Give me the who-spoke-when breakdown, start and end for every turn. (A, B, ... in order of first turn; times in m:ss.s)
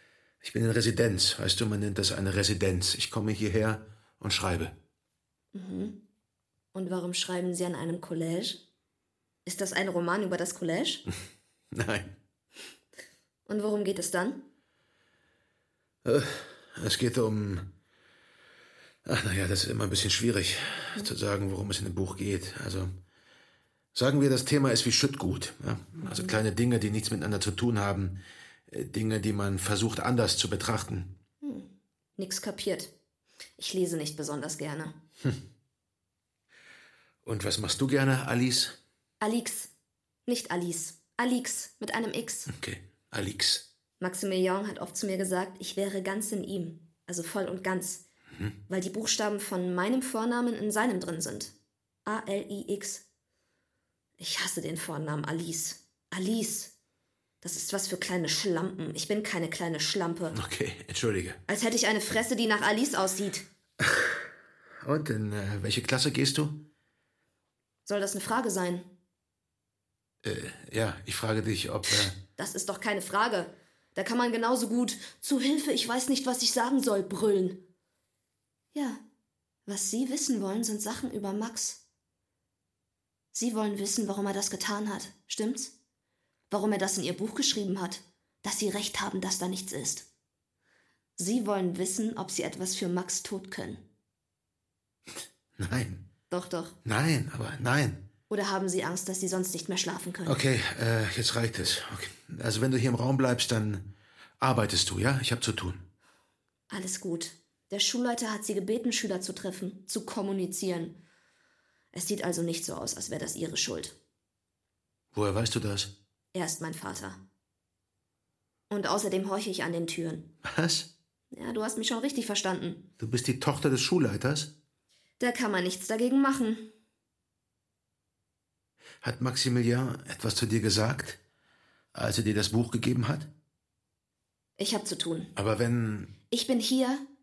0:00.4-0:04.7 A
0:05.5-0:06.0 B
0:06.7-0:08.6 B
0:09.4-0:11.0 B
0:11.7-0:12.1 A
0:13.4-0:14.4 B
0:16.0-0:17.6 A
0:19.0-0:22.9 A
0:23.9-0:28.2 A
0:28.7-0:31.1 A
0:31.4-0:32.9 B
0:33.6-0:34.9 B
0:37.2-0:38.7 A
0:39.2-0:39.7 B
0:40.2-0:42.5 B
0:42.5-0:43.6 A
0:44.0-0:48.0 B
0:48.7-0:51.5 B
0:52.0-0:53.0 B
0:54.2-0:56.7 B
0:57.4-1:00.4 B
1:00.3-1:01.4 A
1:01.5-1:03.4 B
1:03.8-1:04.2 A
1:04.8-1:06.6 A
1:07.8-1:08.9 B
1:10.2-1:12.2 A
1:12.4-1:17.6 B
1:18.7-1:19.0 B
1:19.6-1:21.8 B
1:23.3-1:25.7 B
1:26.5-1:30.0 B
1:31.2-1:33.8 B
1:35.6-1:36.0 A
1:36.3-1:36.8 B
1:36.8-1:38.0 A
1:38.3-1:40.4 B
1:40.2-1:43.8 A
1:44.4-1:45.8 A
1:46.7-1:50.9 B
1:51.9-1:53.9 B
1:55.1-1:55.9 A
1:56.3-1:57.2 B
1:58.7-2:00.2 B
2:00.4-2:00.9 A
2:01.3-2:02.8 B
2:03.0-2:04.5 A
2:05.2-2:06.6 B
2:09.0-2:11.2 A
2:11.9-2:13.3 A
2:14.6-2:15.3 B
2:15.4-2:16.1 A
2:16.3-2:17.0 B